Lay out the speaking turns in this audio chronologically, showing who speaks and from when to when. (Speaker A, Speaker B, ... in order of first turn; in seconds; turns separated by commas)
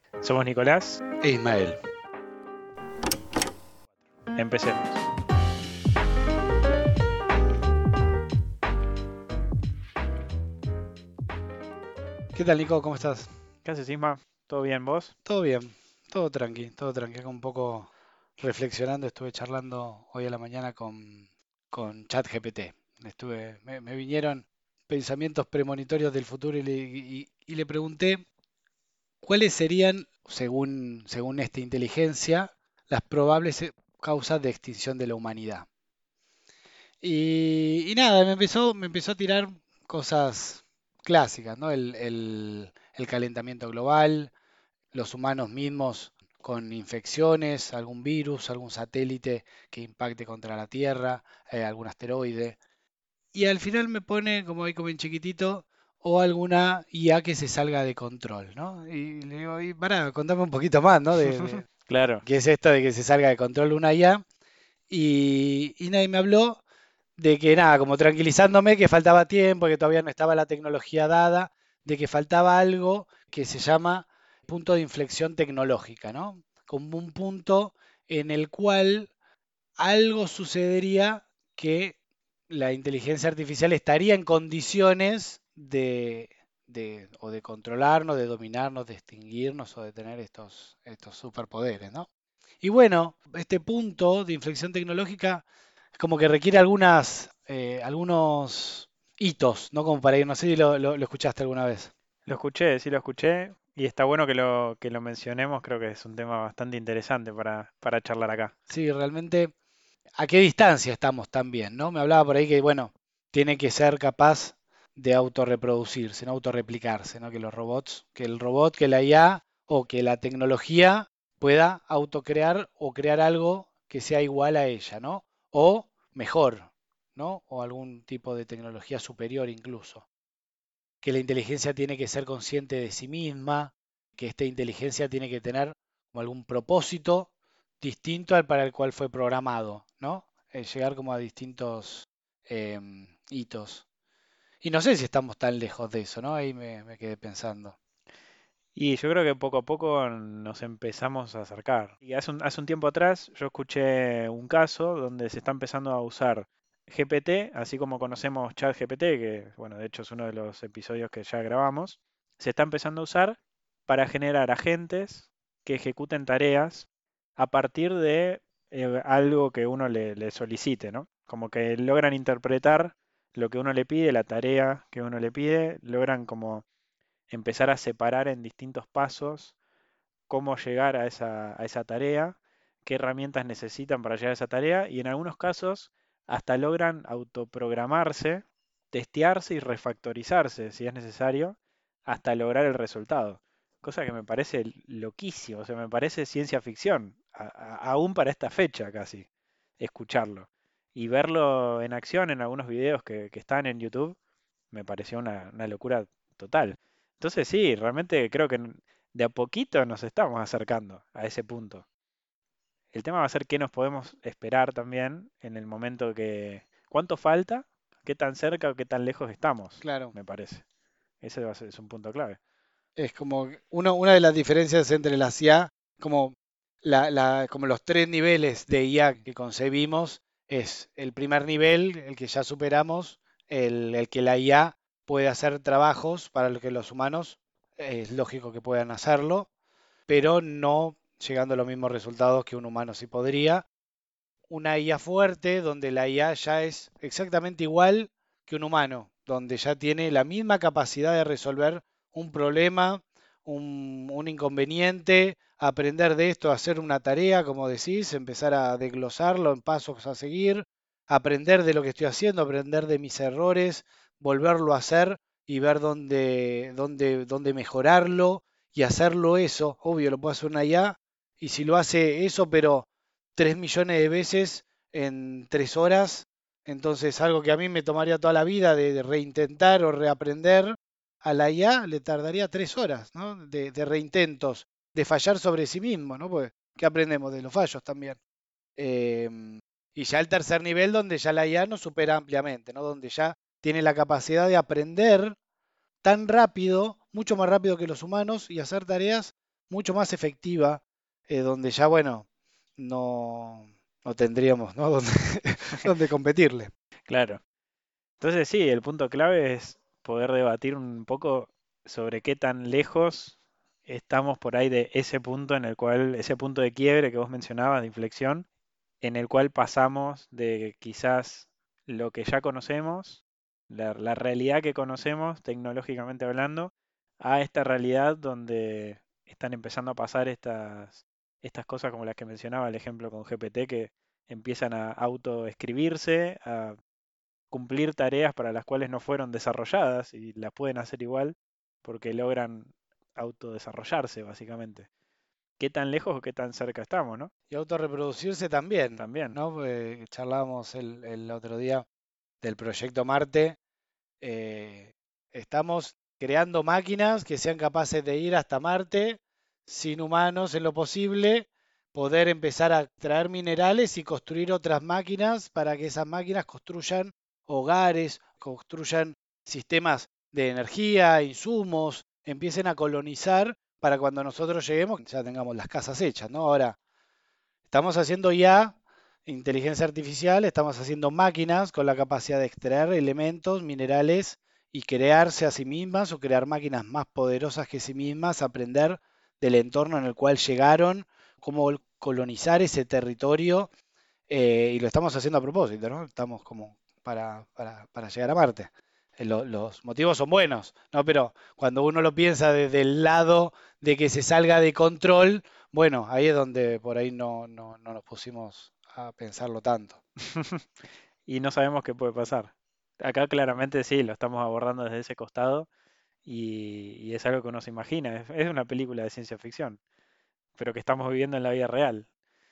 Speaker A: 0.2-1.0, Speaker B: 1.2-1.8, Speaker A: 4.3-5.1, Speaker B: 12.3-13.3, Speaker A: 13.6-15.1, Speaker B: 15.2-28.2, Speaker B: 29.2-35.7, Speaker B: 37.0-44.3, Speaker B: 44.9-52.6, Speaker B: 53.3-61.6, Speaker A: 61.9-62.2, Speaker B: 62.2-64.2, Speaker B: 64.9-66.6, Speaker B: 67.2-79.1, Speaker B: 79.8-82.0, Speaker B: 82.5-92.1, Speaker B: 92.6-95.5, Speaker B: 96.0-101.9, Speaker A: 102.3-108.5, Speaker B: 108.7-109.5, Speaker B: 110.2-130.1, Speaker B: 131.0-137.3, Speaker B: 137.8-143.8, Speaker B: 144.6-147.8, Speaker A: 148.8-176.7, Speaker A: 177.3-179.6, Speaker A: 180.3-199.3, Speaker A: 199.8-204.2, Speaker A: 204.7-211.8, Speaker A: 212.9-220.6, Speaker B: 219.8-220.2, Speaker A: 221.2-222.4, Speaker B: 223.0-239.5, Speaker B: 240.1-243.7, Speaker B: 244.5-288.2, Speaker B: 288.8-295.4, Speaker B: 296.0-302.3, Speaker B: 302.8-306.7, Speaker A: 307.1-307.4, Speaker A: 308.2-318.5, Speaker A: 319.0-336.8, Speaker A: 337.5-344.9, Speaker A: 345.6-347.3, Speaker B: 347.5-351.9, Speaker A: 349.0-349.4, Speaker B: 352.4-353.6, Speaker B: 354.2-376.8, Speaker B: 377.7-393.7, Speaker B: 394.3-410.0, Speaker A: 410.3-410.6, Speaker A: 411.3-415.7, Speaker A: 416.2-419.8, Speaker A: 420.6-422.1